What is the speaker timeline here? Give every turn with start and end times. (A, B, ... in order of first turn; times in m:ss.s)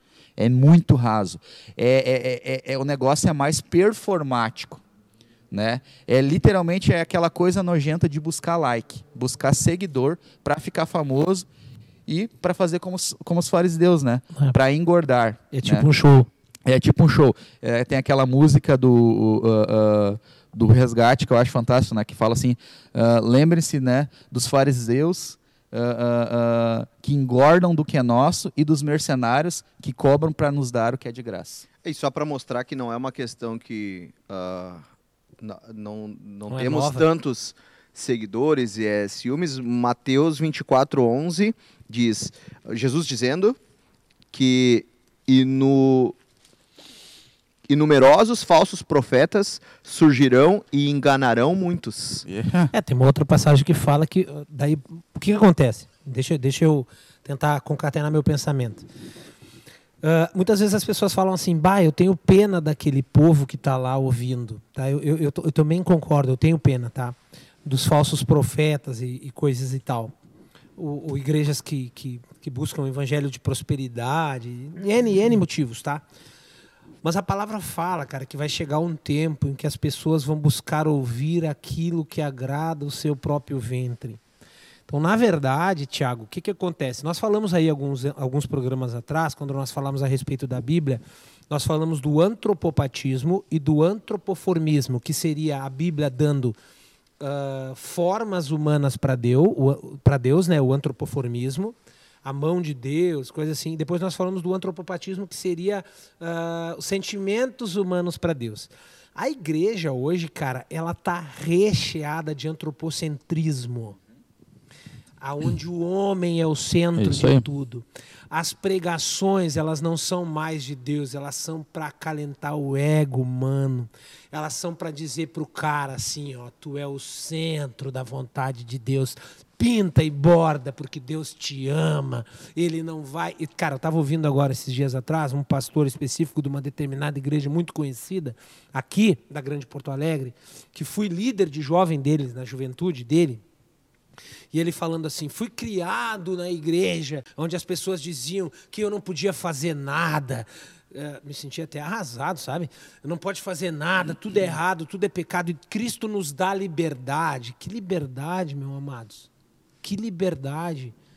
0:00.4-0:04.8 A
0:05.5-0:11.5 A
0:12.1-0:15.9 A
0:15.5-0:16.3 B
0:16.6-0:31.6 A
0:31.8-0:34.8 C
0:35.4-0:43.6 C
0:36.5-0:37.1 B
0:44.3-0:46.2 C
0:47.7-0:52.2 C
0:52.2-0:52.7 A
0:52.7-0:58.8 B
1:00.0-1:10.1 B
1:10.8-1:16.0 B
1:17.0-1:24.2 B
1:24.9-1:36.6 B
1:37.2-1:54.0 B
1:55.2-2:23.4 B
1:57.0-1:57.4 A
2:24.5-2:39.3 B
2:39.8-2:40.9 B